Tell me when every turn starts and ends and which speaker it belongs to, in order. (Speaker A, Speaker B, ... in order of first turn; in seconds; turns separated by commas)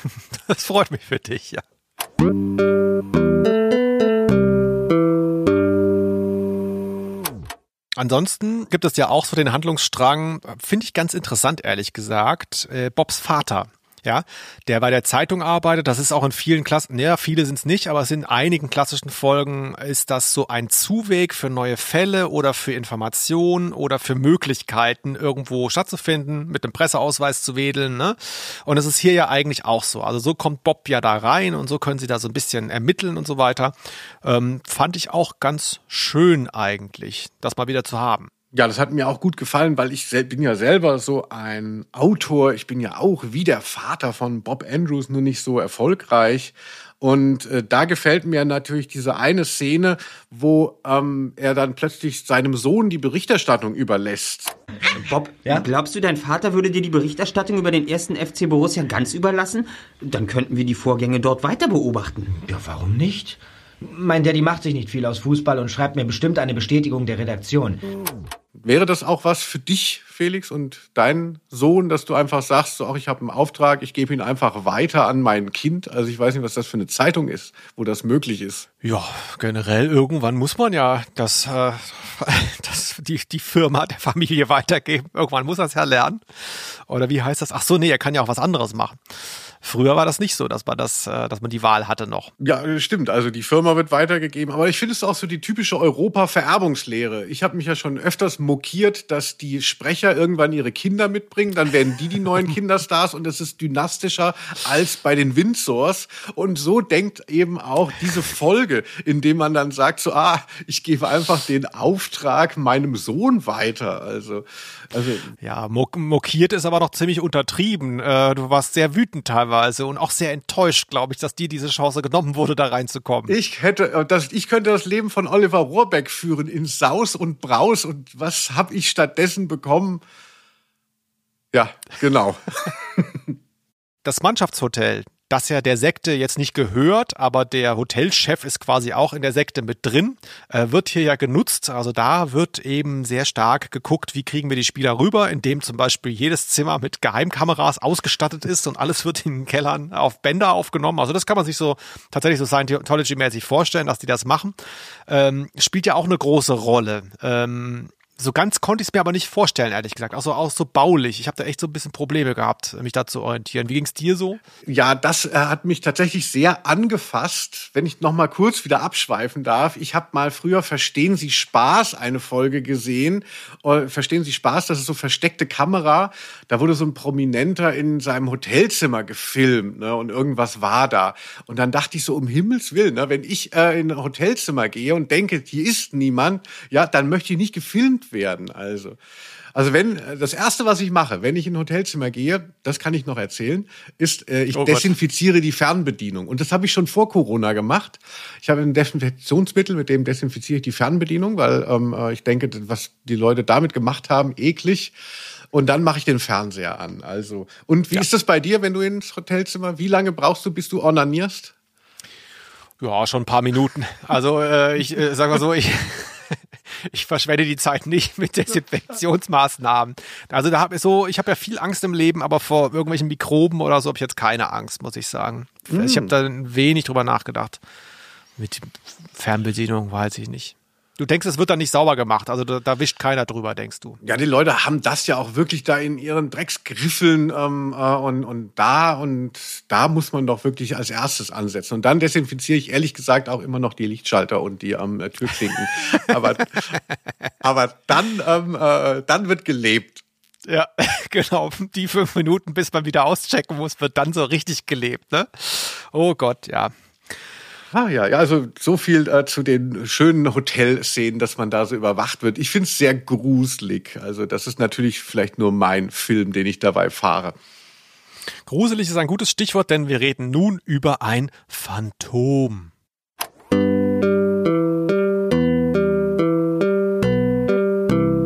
Speaker A: 0.3-1.6, Speaker A: 8.0-38.3, Speaker B: 38.5-54.5, Speaker C: 54.9-62.3, Speaker D: 62.4-67.8, Speaker B: 68.6-78.7, Speaker A: 78.8-89.0, Speaker A: 89.6-92.3, Speaker B: 92.4-115.3, Speaker A: 115.4-123.3, Speaker B: 123.3-130.0, Speaker B: 131.5-133.3, Speaker A: 134.1-154.6, Speaker A: 155.1-164.4, Speaker B: 164.7-189.0, Speaker B: 189.6-204.9, Speaker A: 194.5-194.9, Speaker B: 205.5-211.5, Speaker A: 212.8-227.6, Speaker B: 225.7-226.1, Speaker A: 228.4-234.0, Speaker B: 234.0-246.8, Speaker B: 247.4-250.0, Speaker A: 250.4-256.7, Speaker B: 257.7-267.3, Speaker A: 268.5-272.7